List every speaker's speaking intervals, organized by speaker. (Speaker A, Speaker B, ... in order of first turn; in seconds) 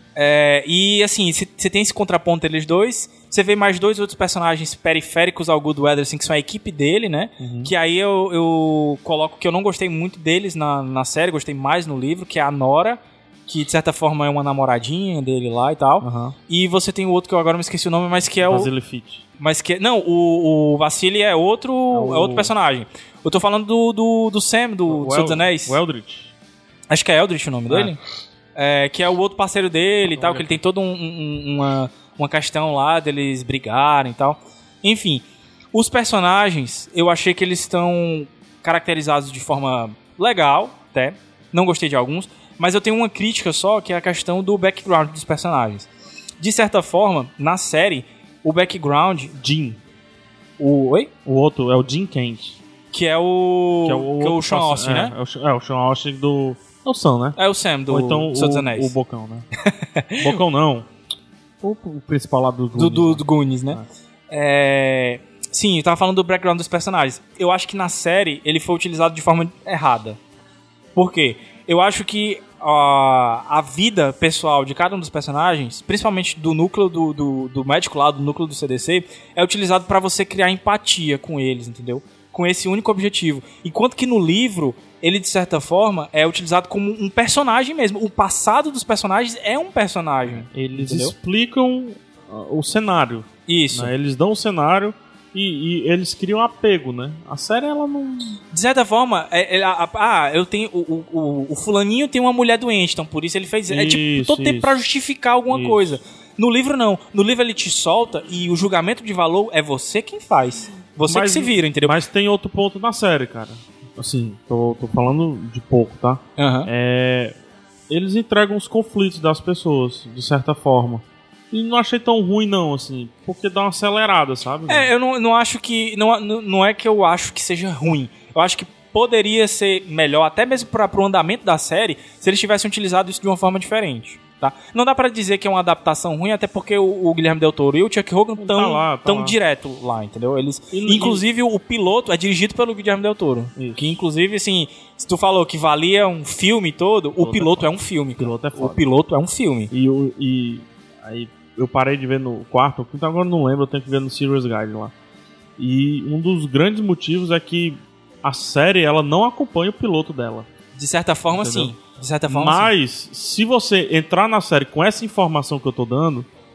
Speaker A: 0.1-18.7, 19.4-25.8, 26.9-28.0, 28.6-45.9, 46.4-49.3, 50.6-51.1, 52.9-55.1, 57.4-58.9, 59.6-60.4, 62.8-70.2, 70.9-91.1, 93.5-93.9, 98.5-112.0, 116.4-116.7, 124.7-149.7, 160.7-162.7
Speaker B: 7.4-7.7, 16.0-16.4, 18.4-19.2, 21.9-22.5, 24.9-26.3, 27.7-27.9, 30.0-30.6, 49.3-49.8, 51.2-52.6, 53.8-57.4, 57.9-59.5, 60.2-60.9, 61.6-63.9, 90.5-98.4, 103.7-104.8, 105.5-106.0, 111.1-117.3, 117.9-124.9, 138.4-139.4, 140.7-141.2, 143.6-144.0, 147.2-148.8, 149.7-154.9, 155.6-160.5, 161.3-161.7, 162.3-166.3